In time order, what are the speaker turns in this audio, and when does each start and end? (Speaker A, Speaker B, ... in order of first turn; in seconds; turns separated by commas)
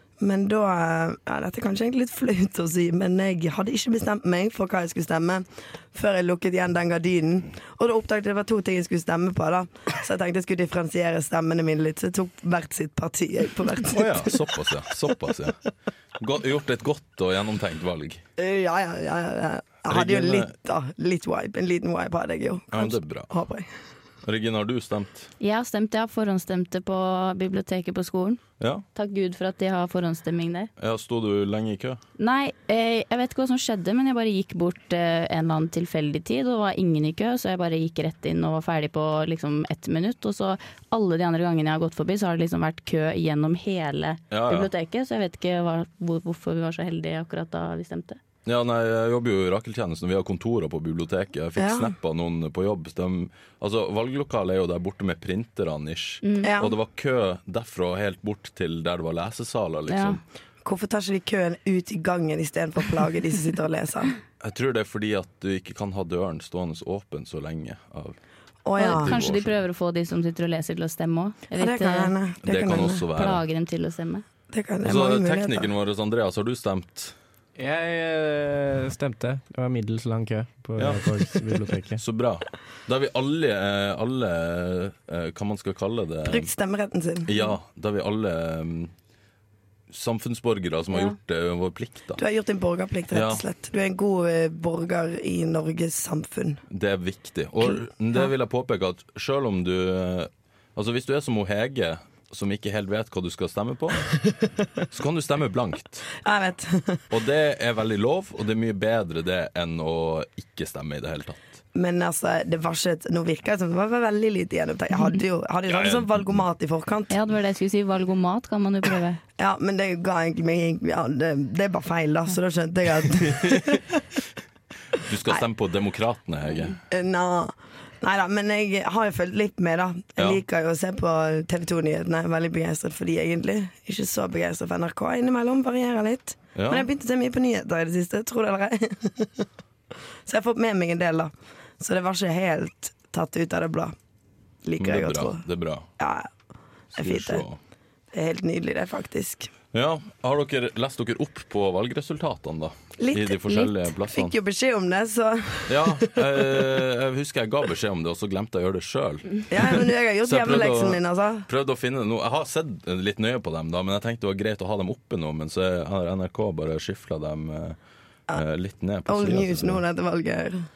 Speaker A: 0.2-14.6, Speaker B: 13.9-15.6, Speaker B: 16.2-18.2, Speaker A: 18.4-23.7, Speaker B: 19.9-20.5, Speaker B: 22.7-23.3, Speaker B: 24.2-25.3, Speaker C: 25.4-28.4, Speaker B: 28.6-28.8, Speaker C: 28.9-30.7, Speaker B: 30.8-32.0, Speaker C: 32.2-48.2, Speaker B: 44.3-44.7, Speaker B: 48.4-60.2, Speaker A: 51.6-51.9, Speaker C: 56.2-56.5, Speaker A: 56.4-56.8, Speaker C: 59.9-60.2, Speaker A: 60.6-64.1, Speaker B: 64.4-68.2, Speaker A: 68.6-69.1, Speaker C: 68.8-72.1, Speaker B: 68.9-69.5, Speaker A: 71.5-73.1, Speaker B: 72.4-73.4, Speaker C: 73.1-74.2, Speaker A: 74.5-75.7, Speaker B: 74.8-77.1, Speaker D: 77.6-82.0, Speaker B: 80.8-86.5, Speaker A: 86.2-87.3, Speaker B: 87.2-88.9, Speaker B: 89.9-92.2, Speaker A: 92.2-96.6, Speaker B: 93.1-93.4, Speaker B: 96.7-104.0, Speaker B: 104.9-106.1, Speaker A: 106.2-107.0, Speaker B: 107.1-111.5, Speaker A: 111.7-117.1, Speaker B: 115.7-116.2, Speaker C: 117.1-119.2, Speaker A: 119.4-124.0, Speaker B: 123.2-123.8, Speaker B: 125.0-126.8, Speaker A: 126.9-139.5, Speaker B: 136.6-136.9, Speaker A: 140.2-143.9, Speaker A: 144.6-145.4, Speaker B: 144.8-145.9, Speaker A: 146.0-146.3, Speaker B: 146.9-147.6, Speaker A: 146.9-147.4, Speaker A: 148.1-149.5, Speaker B: 149.7-154.3, Speaker A: 153.0-156.7, Speaker C: 153.5-153.7, Speaker B: 155.7-167.8, Speaker A: 159.5-161.5, Speaker B: 168.3-169.8, Speaker A: 169.1-170.7